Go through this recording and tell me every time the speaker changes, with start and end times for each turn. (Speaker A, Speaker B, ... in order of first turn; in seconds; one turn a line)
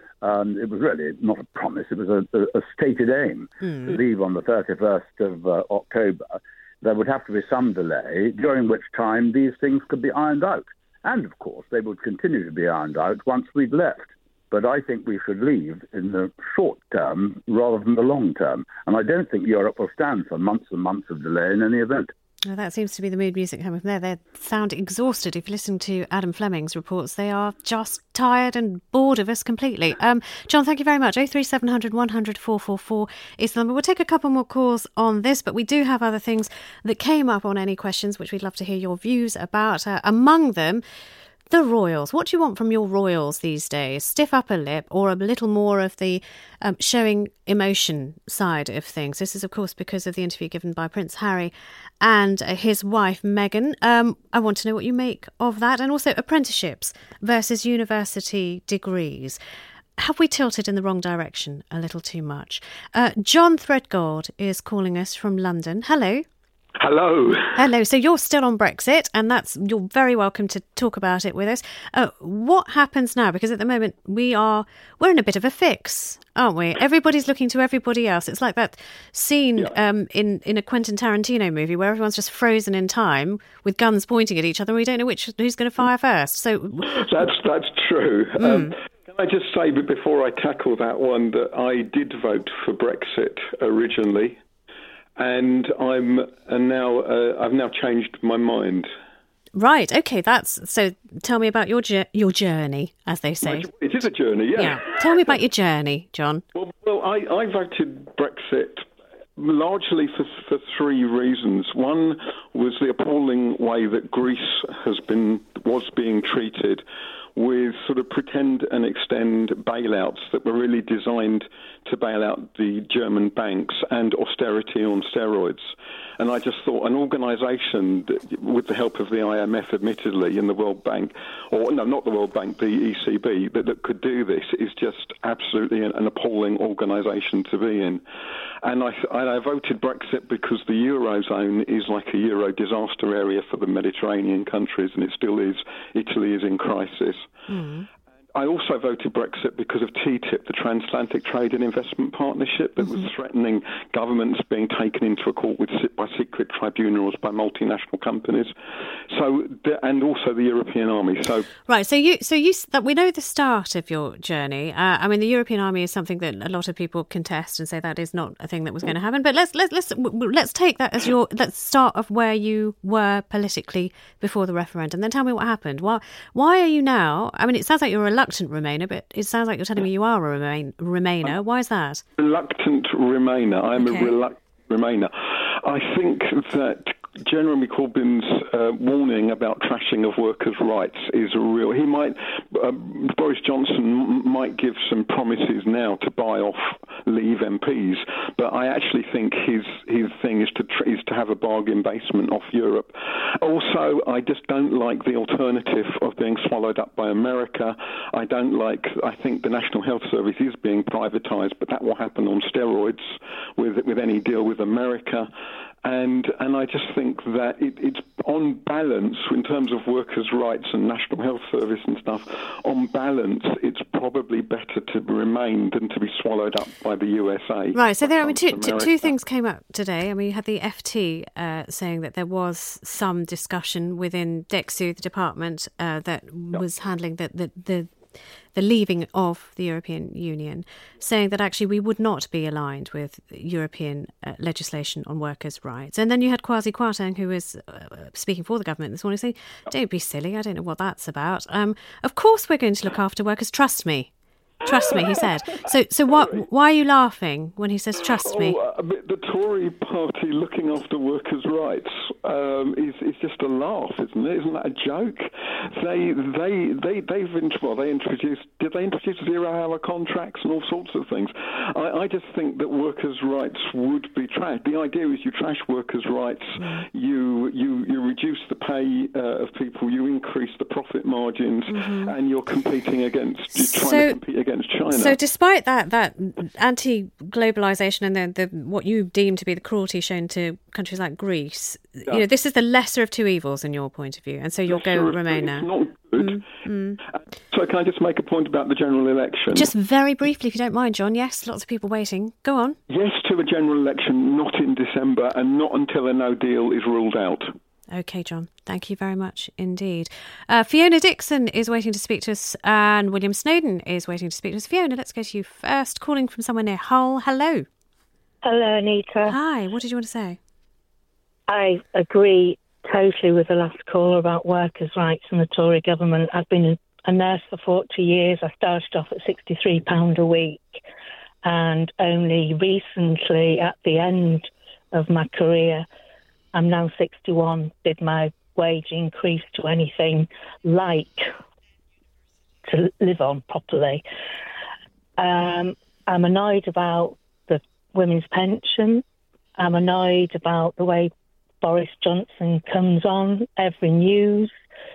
Speaker A: 0.2-22.1
Speaker B: 3.7-4.0
Speaker B: 22.4-40.8
Speaker B: 41.5-59.4
Speaker B: 60.0-66.2
Speaker C: 66.8-67.6
Speaker B: 67.5-87.1
Speaker C: 86.8-94.4
Speaker B: 88.4-88.8
Speaker C: 95.2-98.9
Speaker B: 99.5-103.7
Speaker C: 103.4-105.3
Speaker B: 104.5-106.4
Speaker C: 106.5-116.8
Speaker C: 117.3-138.0
Speaker C: 138.6-147.3
Speaker B: 147.5-147.9
Speaker C: 148.3-158.5
Speaker C: 159.1-161.5
Speaker B: 161.7-182.0
Speaker C: 182.2-215.3
Speaker B: 183.8-184.2
Speaker C: 215.8-229.1
Speaker B: 227.7-238.0
Speaker B: 238.5-254.1
Speaker B: 254.6-258.6
Speaker C: 254.8-255.2
Speaker C: 256.1-256.4
Speaker C: 258.2-285.2
Speaker B: 276.6-276.9
Speaker B: 281.7-282.1
Speaker B: 283.5-284.2
Speaker B: 284.9-297.0
Speaker C: 294.7-296.4
Speaker C: 297.1-299.7
Speaker B: 299.5-302.8
Speaker C: 302.9-307.5
Speaker B: 307.9-317.7
Speaker D: 318.4-319.4
Speaker B: 319.2-320.4
Speaker D: 321.5-330.8
Speaker D: 331.4-335.9
Speaker D: 336.5-341.3
Speaker D: 342.6-344.0
Speaker D: 345.2-349.0
Speaker D: 349.6-354.6